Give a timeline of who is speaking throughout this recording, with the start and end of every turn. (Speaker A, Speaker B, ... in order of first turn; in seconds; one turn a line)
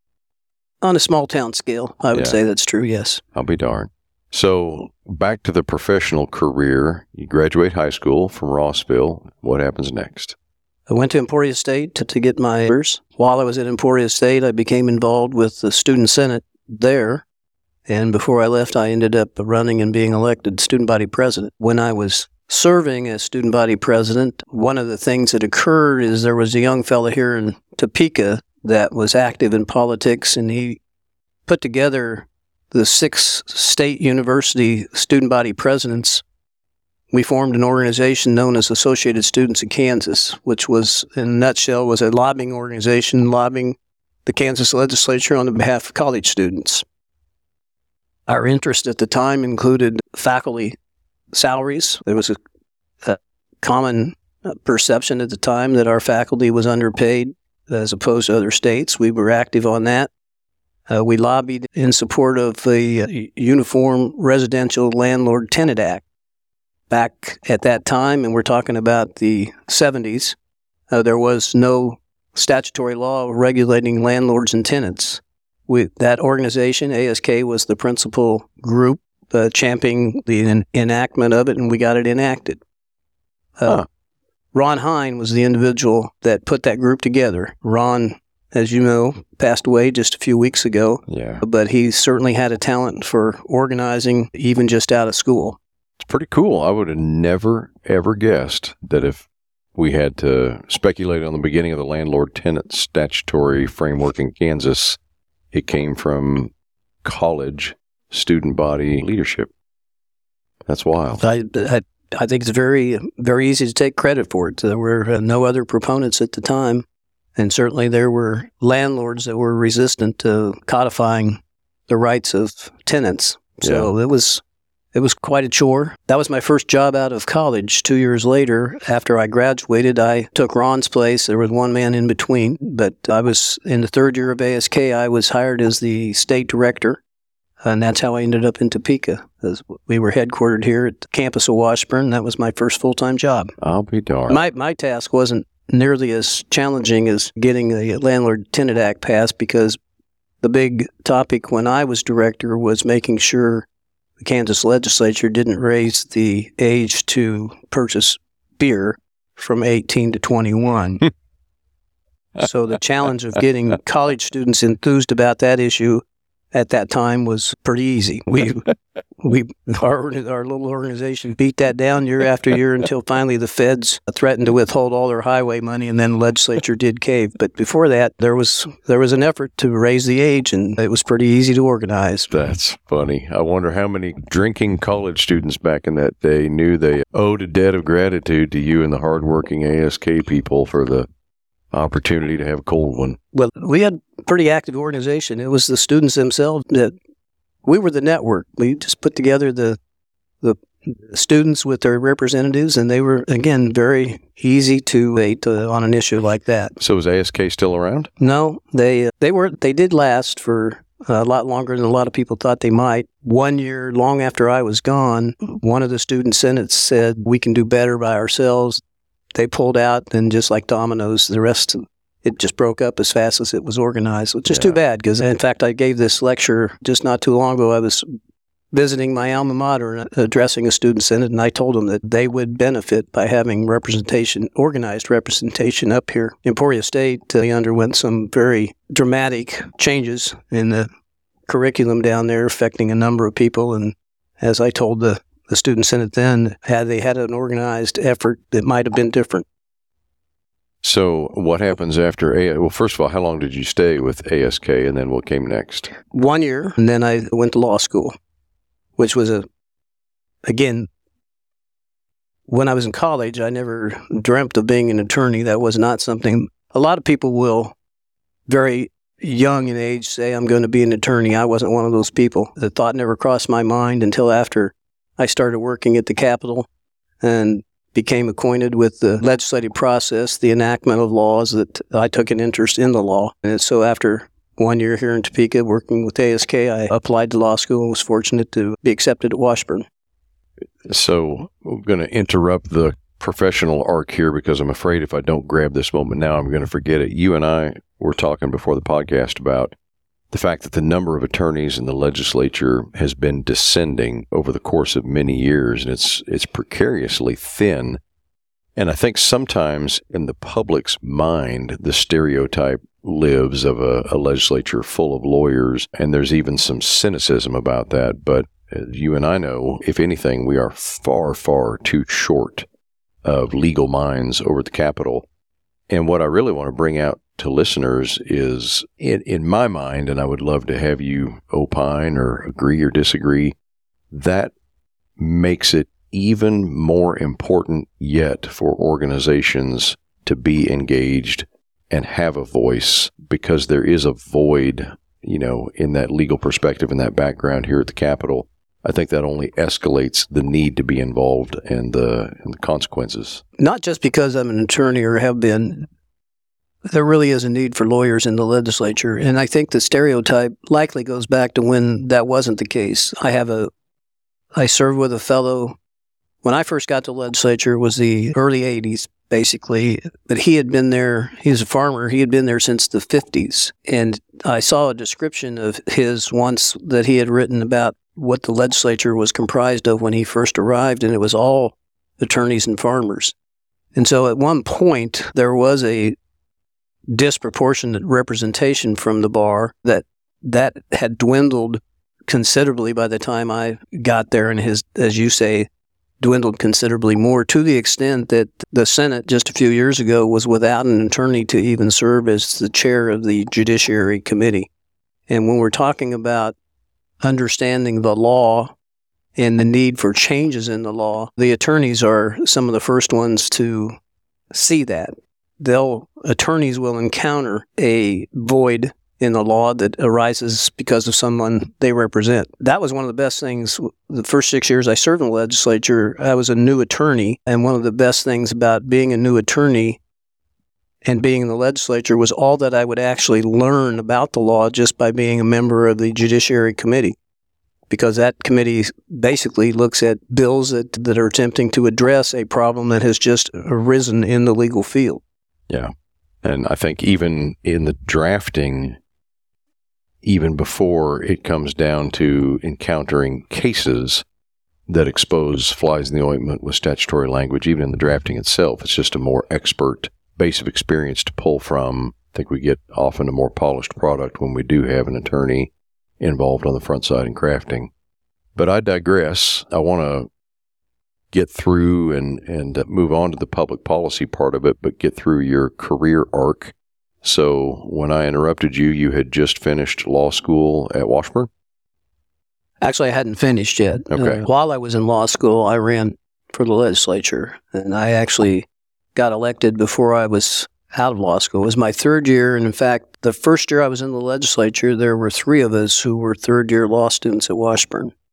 Speaker A: 0.8-3.2
Speaker B: 3.4-10.4
Speaker A: 10.9-17.2
Speaker A: 17.9-30.8
Speaker A: 31.5-36.2
Speaker A: 37.1-46.9
Speaker A: 48.3-50.8
Speaker A: 51.3-52.4
Speaker A: 53.0-60.1
Speaker A: 60.9-66.0
Speaker A: 66.9-70.4
Speaker A: 70.9-82.6
Speaker A: 83.6-83.8
Speaker A: 84.5-95.6
Speaker B: 91.1-91.4
Speaker B: 96.0-99.2
Speaker B: 99.8-105.0
Speaker B: 105.5-106.5
Speaker B: 107.0-109.5
Speaker B: 110.7-111.2
Speaker A: 111.2-116.8
Speaker A: 117.4-124.4
Speaker B: 123.6-123.9
Speaker A: 124.9-137.0
Speaker A: 137.6-143.5
Speaker B: 143.6-144.4
Speaker A: 144.3-149.8
Speaker A: 150.4-153.7
Speaker A: 154.2-161.1
Speaker A: 162.4-168.7
Speaker A: 169.2-182.3
Speaker B: 182.3-191.1
Speaker B: 191.7-193.2
Speaker A: 193.3-196.9
Speaker A: 197.7-199.8
Speaker A: 200.4-206.8
Speaker B: 206.8-208.1
Speaker A: 208.2-218.8
Speaker A: 219.3-228.1
Speaker B: 224.5-224.8
Speaker A: 228.7-240.9
Speaker A: 241.5-249.4
Speaker B: 250.8-255.9
Speaker A: 256.1-258.2
Speaker A: 259.0-259.5
Speaker A: 260.5-260.9
Speaker A: 262.5-267.8
Speaker A: 268.5-276.7
Speaker A: 277.2-289.9
Speaker B: 290.9-299.8
Speaker B: 300.3-308.0
Speaker B: 308.8-322.7
Speaker B: 323.2-325.3
Speaker B: 325.9-333.6
Speaker B: 334.1-334.5
Speaker B: 335.2-353.4
Speaker A: 353.6-355.9
Speaker A: 356.9-363.7
Speaker A: 364.6-365.8
Speaker A: 366.4-383.4
Speaker A: 383.9-386.2
Speaker A: 387.1-395.7
Speaker A: 396.2-404.7
Speaker A: 405.3-406.6
Speaker A: 407.2-408.7
Speaker A: 409.4-414.0
Speaker A: 414.5-430.0
Speaker A: 431.1-437.2
Speaker A: 437.9-445.2
Speaker B: 446.4-449.0
Speaker B: 450.2-454.2
Speaker B: 454.9-467.9
Speaker B: 468.6-470.3
Speaker B: 471.3-481.5
Speaker A: 482.8-498.1
Speaker B: 484.1-484.4